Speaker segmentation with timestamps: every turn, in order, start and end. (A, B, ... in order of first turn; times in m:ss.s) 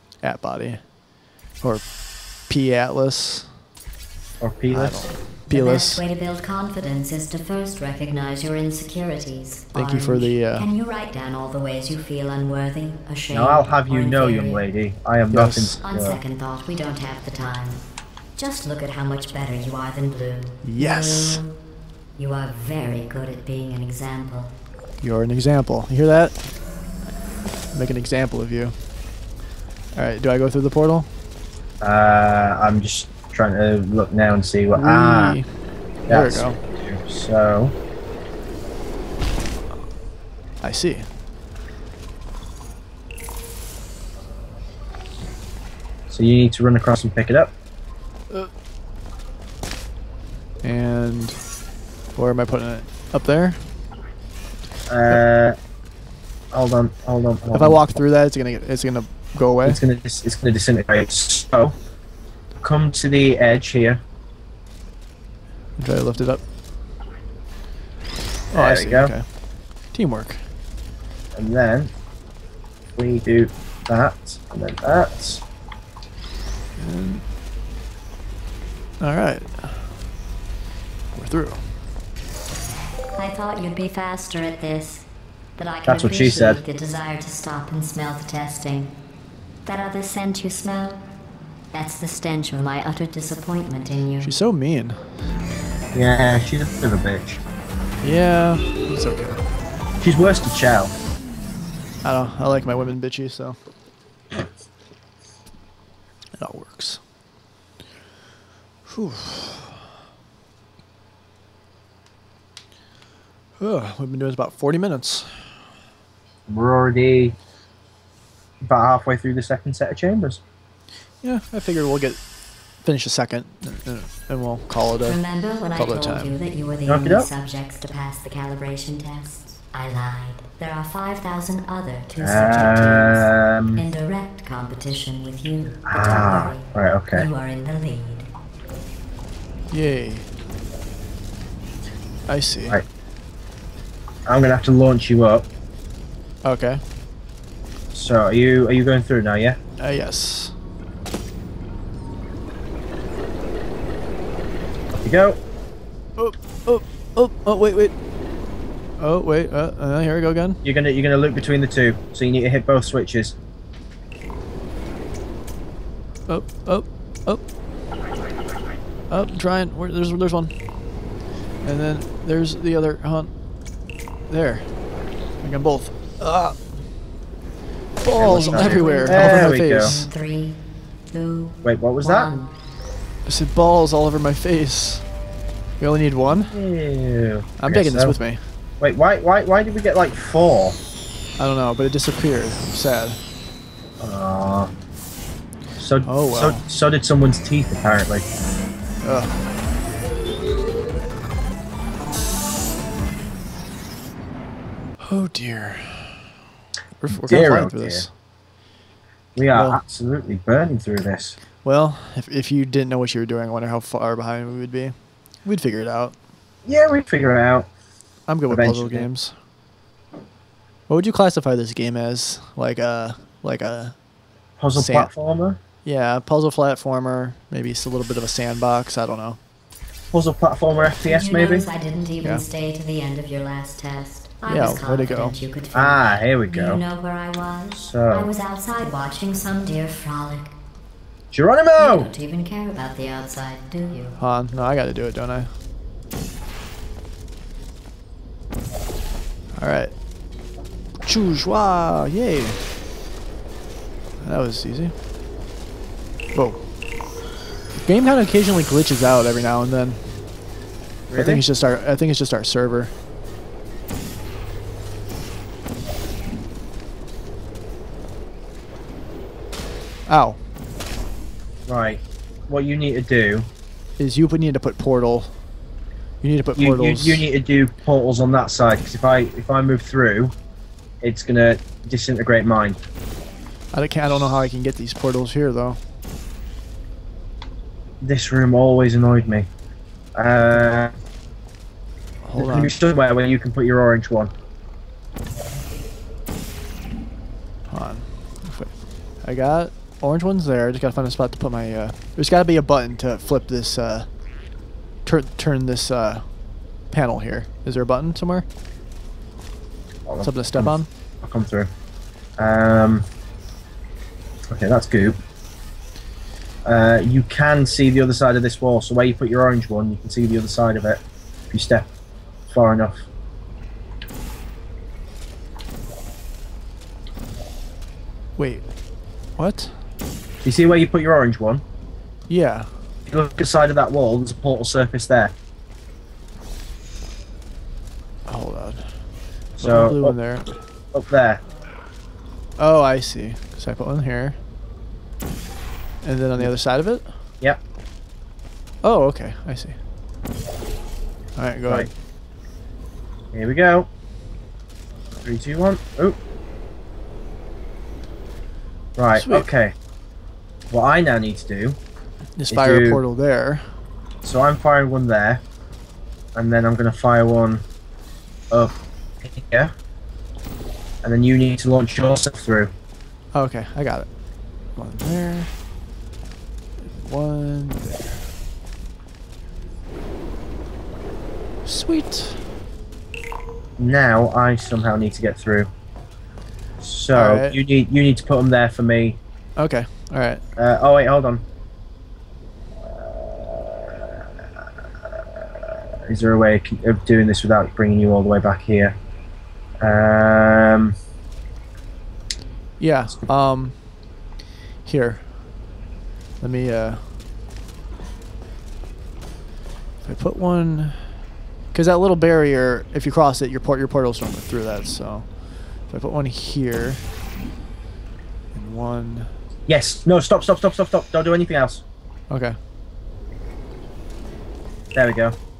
0:00.2-0:00.8 A
0:02.5-0:03.5 A
0:04.4-0:05.0 B
0:04.7-0:06.0 A
0:05.4-0:14.6 C
0:09.7-0:10.7 A
0:13.3-0:16.2 B
0:15.3-0:15.8 A
0:15.8-0:17.8 C
0:18.4-0:21.5 C
0:20.6-0:21.4 A
0:22.2-0:24.5 C
0:25.0-0:26.4 A
0:27.7-0:28.7 A
0:29.9-0:31.1 A
0:31.8-0:35.4 B
0:34.7-0:35.5 A
0:36.1-0:37.7 B
0:36.1-0:36.6 A
0:40.6-0:41.0 A
0:46.1-0:47.5 B
0:50.6-0:51.4 A
0:52.2-0:53.6 A
0:54.9-0:55.6 B
0:56.5-0:57.8 B
0:57.5-0:59.8 A
0:59.6-1:01.8 B
1:02.6-1:04.0 B
1:05.8-1:06.4 A
1:08.5-1:09.3 A
1:08.5-1:09.1 B
1:09.9-1:10.4 A
1:11.3-1:11.9 B
1:13.0-1:15.4 B
1:16.8-1:17.2 A
1:19.0-1:20.0 A
1:21.1-1:21.8 A
1:23.1-1:25.0 C
1:25.6-1:28.9 C
1:25.8-1:26.6 B
1:29.6-1:31.0 C
1:31.7-1:34.3 C
1:34.2-1:35.0 A
1:35.9-1:37.4 B
1:38.0-1:39.4 A
1:40.0-1:40.9 B
1:42.0-1:43.6 A
1:46.4-1:47.0 A
1:48.8-1:49.8 A
1:53.6-1:55.5 A
1:56.5-1:57.3 B
1:58.6-2:00.4 B
2:01.2-2:02.2 A
2:02.8-2:05.2 A
2:05.0-2:18.3 C
2:05.7-2:06.4 A
2:06.9-2:07.3 B
2:12.2-2:13.8 B
2:15.9-2:17.3 B
2:19.7-2:20.2 A
2:22.3-2:22.8 A
2:24.2-2:25.4 B
2:26.4-2:26.8 A
2:27.9-2:29.6 B
2:29.8-2:30.5 A
2:35.0-2:35.4 B
2:36.2-2:37.9 A
2:39.0-2:40.6 A
2:40.6-2:43.3 B
2:46.3-2:47.4 A
2:49.1-2:50.7 A
2:51.6-2:53.3 A
2:54.3-2:54.7 A
2:55.4-2:56.6 A
2:58.0-3:00.0 A
2:58.2-3:00.0 B
2:58.2-3:00.6 C
3:01.1-3:02.5 C
3:01.6-3:02.3 B
3:03.2-3:05.0 A
3:05.8-3:06.6 A
3:06.3-3:08.2 B
3:07.6-3:08.4 A
3:08.8-3:10.8 B
3:11.4-3:13.2 A
3:14.0-3:14.7 B
3:15.8-3:18.3 B
3:16.0-3:16.6 A
3:19.0-3:19.3 A
3:25.0-3:26.2 A
3:27.0-3:28.1 A
3:27.1-3:28.0 B
3:29.4-3:31.4 B
3:29.5-3:29.8 A
3:31.6-3:36.1 A
3:36.6-3:37.7 B
3:38.3-3:39.3 A
3:38.5-3:39.1 B
3:40.9-3:44.0 A
3:44.6-3:45.6 B
3:44.7-3:45.1 A
3:45.8-3:49.4 A
3:50.1-3:51.7 B
3:51.0-4:00.5 C
3:54.4-3:55.4 A
3:55.7-3:56.8 B
3:57.8-3:58.3 B
4:01.3-4:02.1 B
4:01.8-4:04.2 C
4:04.2-4:05.5 A
4:09.5-4:09.9 A
4:11.0-4:12.6 A
4:14.2-4:14.9 A
4:16.3-4:16.6 A
4:17.8-4:20.0 A
4:21.1-4:21.4 B
4:21.1-4:22.9 A
4:30.1-4:30.4 A
4:31.7-4:33.4 B
4:34.0-4:35.3 A
4:36.2-4:37.2 A
4:36.6-4:40.3 B
4:41.0-4:42.8 B
4:43.7-4:45.8 A
4:48.0-4:49.5 B
4:50.1-4:50.9 B
4:52.2-4:52.7 A
4:52.3-4:54.3 B
4:57.7-5:04.1 A
5:05.0-5:06.3 A
5:06.9-5:08.4 A
5:10.0-5:11.7 B
5:10.2-5:10.9 A
5:12.4-5:13.0 B
5:14.5-5:15.2 B
5:16.6-5:21.9 B
5:22.5-5:23.1 B
5:28.4-5:28.6 A
5:29.4-5:29.8 A
5:30.4-5:31.6 B
5:32.3-5:32.7 A
5:33.1-5:35.3 B
5:38.3-5:38.9 A
5:39.6-5:40.2 B
5:39.6-5:40.5 A
5:40.9-5:41.4 B
5:42.6-5:44.4 A
5:46.0-5:47.1 A
5:48.8-5:49.8 A
5:51.4-5:51.9 A
5:53.3-5:53.9 B
5:55.2-5:56.2 B
5:59.0-5:59.7 B
5:59.1-5:59.5 A
6:00.7-6:01.8 B
6:02.4-6:03.7 A
6:02.5-6:03.0 B
6:04.2-6:05.4 B
6:06.4-6:07.6 B
6:08.5-6:09.7 B
6:11.0-6:12.7 B
6:13.3-6:14.1 A
6:14.8-6:15.5 A
6:16.8-6:18.3 A
6:21.6-6:22.5 A
6:23.8-6:25.7 B
6:26.8-6:29.2 B
6:27.1-6:27.6 A
6:29.6-6:30.4 A
6:30.6-6:31.4 B
6:32.8-6:34.3 B
6:35.0-6:38.9 B
6:39.8-6:40.9 B
6:42.8-6:43.8 A
6:44.8-6:45.3 A
6:46.4-6:47.1 A
6:50.0-6:51.2 A
6:51.7-6:57.0 A
6:58.5-6:59.3 A
6:59.7-7:01.8 B
7:02.3-7:02.6 A
7:04.9-7:05.4 B